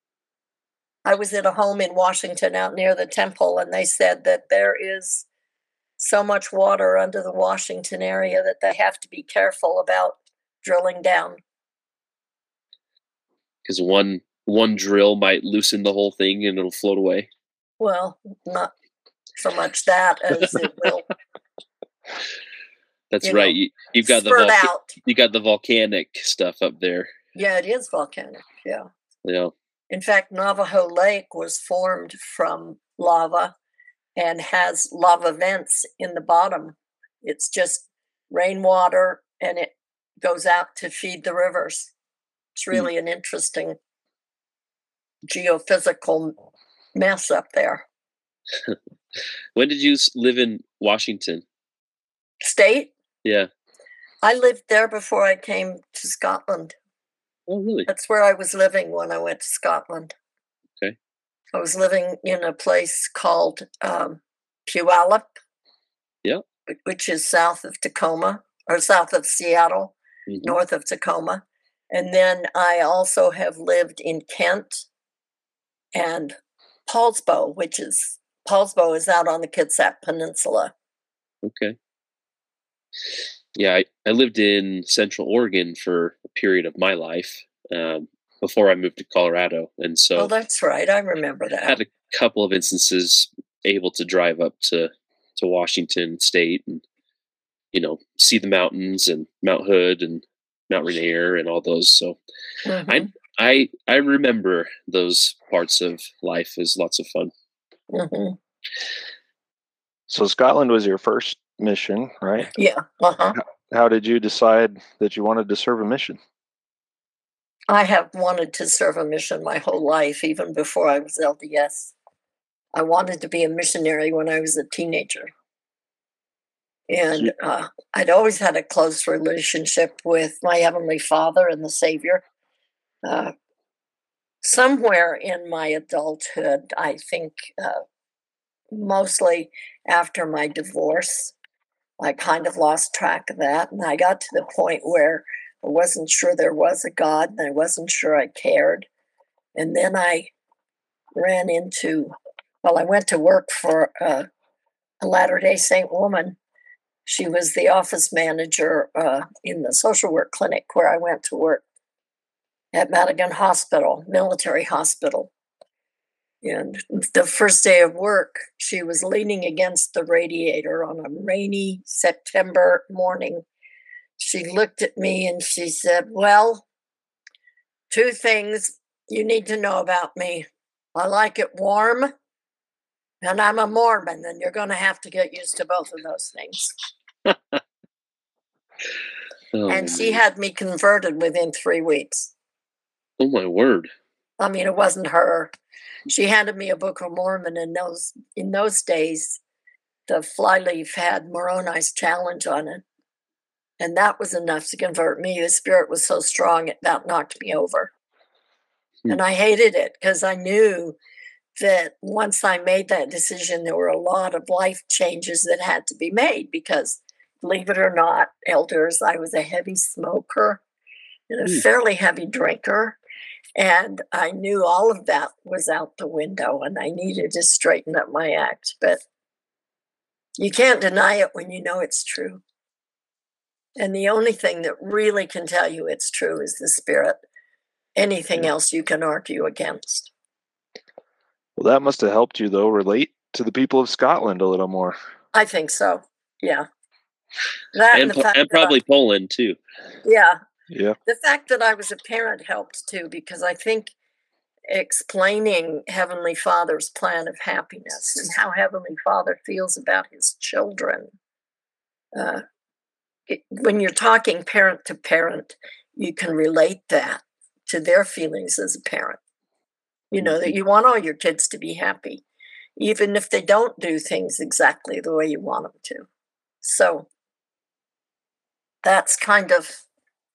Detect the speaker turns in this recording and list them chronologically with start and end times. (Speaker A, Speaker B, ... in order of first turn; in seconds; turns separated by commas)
Speaker A: 1.0-5.2, Speaker A: 6.0-11.4, Speaker B: 13.7-17.3, Speaker A: 17.8-18.7, Speaker A: 19.4-21.1, Speaker B: 23.1-27.1, Speaker A: 23.2-24.9, Speaker A: 27.3-28.9, Speaker B: 29.2-29.5, Speaker A: 29.9-33.5, Speaker A: 34.1-41.9, Speaker A: 42.5-43.8, Speaker A: 45.2-46.3, Speaker A: 46.9-47.8, Speaker B: 49.5-51.4, Speaker A: 52.4-52.9, Speaker A: 54.2-56.8, Speaker B: 57.5-57.9, Speaker A: 57.9-60.1, Speaker A: 61.5-65.3, Speaker A: 66.8-74.8, Speaker B: 70.3-70.6, Speaker A: 75.9-76.3, Speaker A: 76.9-80.7, Speaker B: 81.4-81.8, Speaker B: 83.5-90.3, Speaker A: 90.2-91.8, Speaker B: 91.6-96.8, Speaker B: 97.7-102.2, Speaker A: 102.7-103.1, Speaker B: 102.9-107.3, Speaker A: 107.9-108.4, Speaker C: 110.1-112.5, Speaker A: 112.5-113.4, Speaker C: 113.7-116.2, Speaker A: 117.7-121.9, Speaker A: 122.7-125.3, Speaker A: 126.9-132.2, Speaker A: 133.0-133.3, Speaker A: 134.4-137.8, Speaker A: 138.7-141.3, Speaker A: 142.0-148.9, Speaker A: 149.5-150.3, Speaker A: 151.2-154.3, Speaker A: 155.0-156.4, Speaker A: 157.1-161.6, Speaker A: 162.7-165.3, Speaker A: 166.4-173.4, Speaker A: 174.2-176.6, Speaker A: 177.9-182.1, Speaker A: 183.2-186.8, Speaker B: 187.3-187.6, Speaker B: 189.5-190.2, Speaker A: 189.7-192.3, Speaker B: 193.2-193.9, Speaker A: 194.4-195.5, Speaker A: 196.1-199.4, Speaker A: 200.1-202.8, Speaker A: 203.8-207.9, Speaker A: 209.1-210.9, Speaker A: 211.6-220.6, Speaker A: 221.3-223.0, Speaker A: 223.6-229.0, Speaker A: 230.4-232.4, Speaker A: 233.8-237.2, Speaker A: 237.9-240.1, Speaker C: 241.6-244.9, Speaker A: 245.3-246.7, Speaker A: 247.7-248.7, Speaker B: 247.9-249.6, Speaker A: 250.0-250.4, Speaker C: 250.7-251.0, Speaker A: 251.1-253.9, Speaker A: 254.7-261.1, Speaker A: 262.1-262.4, Speaker A: 263.3-269.2, Speaker A: 270.1-272.2, Speaker A: 272.8-276.1, Speaker A: 276.6-277.1, Speaker A: 278.8-279.8